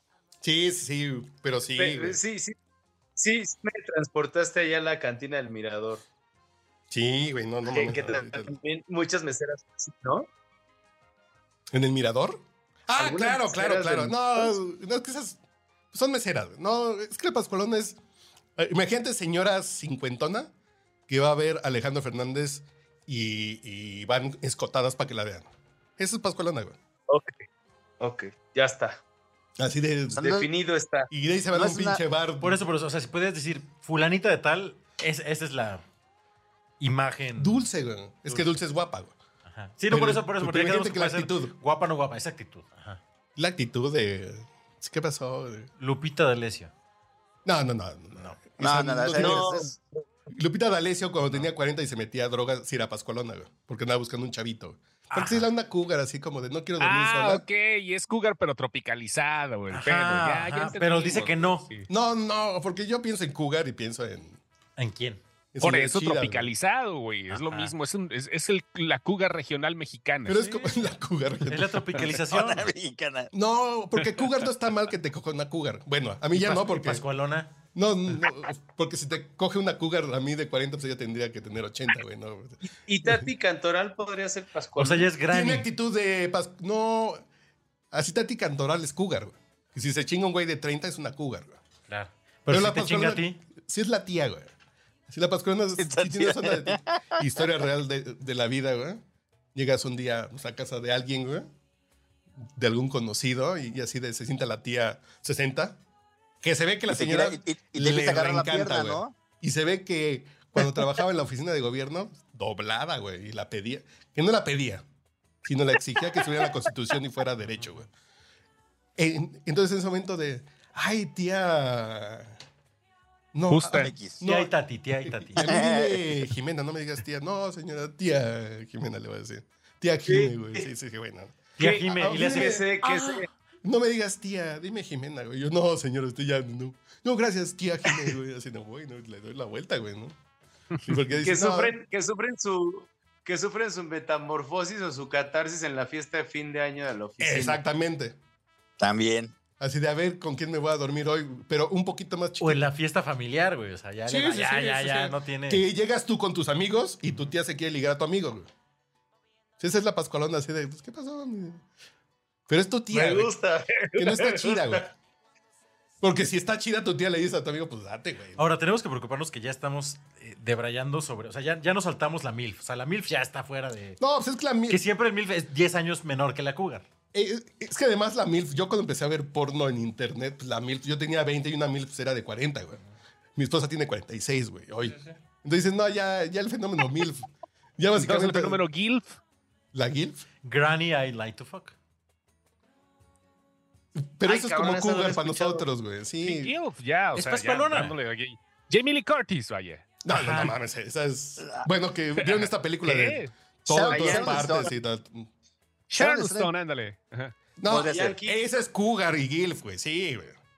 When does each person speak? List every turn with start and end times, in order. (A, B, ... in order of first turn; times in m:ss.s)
0:00.4-0:02.2 A
0:01.8-0:02.5 B
0:03.2-0:06.0 B
0:06.9-0:08.5 A
0:07.7-0:10.3 B
0:11.7-0:15.4 A
0:13.0-0:14.6 B
0:15.9-0:18.0 A
0:18.6-0:20.5 A
0:21.1-0:26.8 A
0:27.1-0:27.4 B
0:28.0-0:29.0 B
0:29.6-0:30.3 A
0:30.1-0:30.5 C
0:30.2-0:31.1 B
0:31.1-0:32.6 A
0:31.5-0:32.0 C
0:32.4-0:35.8 D
0:36.8-0:37.7 D
0:37.4-0:39.1 A
0:38.2-0:38.6 D
0:39.4-0:43.0 D
0:39.9-0:41.5 A
0:43.4-0:45.7 A
0:45.8-0:46.7 D
0:47.4-0:49.6 A
0:48.6-0:49.7 C
0:49.2-0:49.8 B
0:50.3-0:57.4 A
0:55.1-0:55.5 D
0:56.8-1:01.9 E
0:59.7-1:01.6 D
1:01.9-1:04.4 A
1:04.8-1:05.2 D
1:05.5-1:06.5 A
1:05.6-1:10.7 E
1:07.3-1:07.7 D
1:10.2-1:11.8 A
1:11.5-1:12.7 D
1:12.1-1:13.3 C
1:13.3-1:17.0 A
1:16.3-1:17.5 D
1:17.7-1:23.3 A
1:22.8-1:25.2 B
1:24.8-1:25.7 D
1:25.3-1:27.2 A
1:27.9-1:31.6 A
1:31.9-1:33.4 D
1:32.5-1:34.5 A
1:35.1-1:39.0 A
1:35.8-1:37.5 C
1:39.5-1:41.5 A
1:42.6-1:45.8 A
1:46.4-1:54.8 A
1:46.9-1:49.2 C
1:55.4-1:57.9 A
1:57.5-1:57.8 D
1:59.0-2:02.4 A
2:03.3-2:12.7 A
2:03.5-2:03.9 E
2:03.7-2:04.2 C
2:04.2-2:05.5 D
2:05.4-2:06.0 C
2:10.1-2:10.6 B
2:11.6-2:13.0 D
2:11.6-2:13.2 B
2:13.6-2:20.1 A
2:20.8-2:21.8 A
2:21.2-2:27.6 B
2:27.2-2:28.2 A
2:28.8-2:29.3 C
2:29.6-2:32.6 A
2:32.4-2:35.6 D
2:34.1-2:38.5 A
2:39.6-2:41.6 A
2:42.5-2:43.3 A
2:42.9-2:44.8 B
2:44.0-2:44.9 A
2:46.0-2:48.4 A
2:48.4-2:54.0 D
2:54.0-2:54.8 A
2:54.7-2:56.8 D
2:57.1-3:02.8 A
3:03.4-3:08.6 A
3:07.9-3:09.2 E
3:09.7-3:10.2 A
3:10.4-3:11.7 D
3:14.0-3:16.5 A
3:14.2-3:15.6 B
3:16.2-3:19.9 E
3:17.2-3:17.9 D
3:20.0-3:25.3 A
3:20.1-3:20.6 D
3:21.4-3:21.7 C
3:22.2-3:23.3 E
3:23.7-3:24.7 C
3:23.9-3:24.7 B
3:25.9-3:27.3 E
3:25.9-3:26.5 C
3:27.6-3:30.4 A
3:27.7-3:28.5 B
3:27.7-3:28.1 C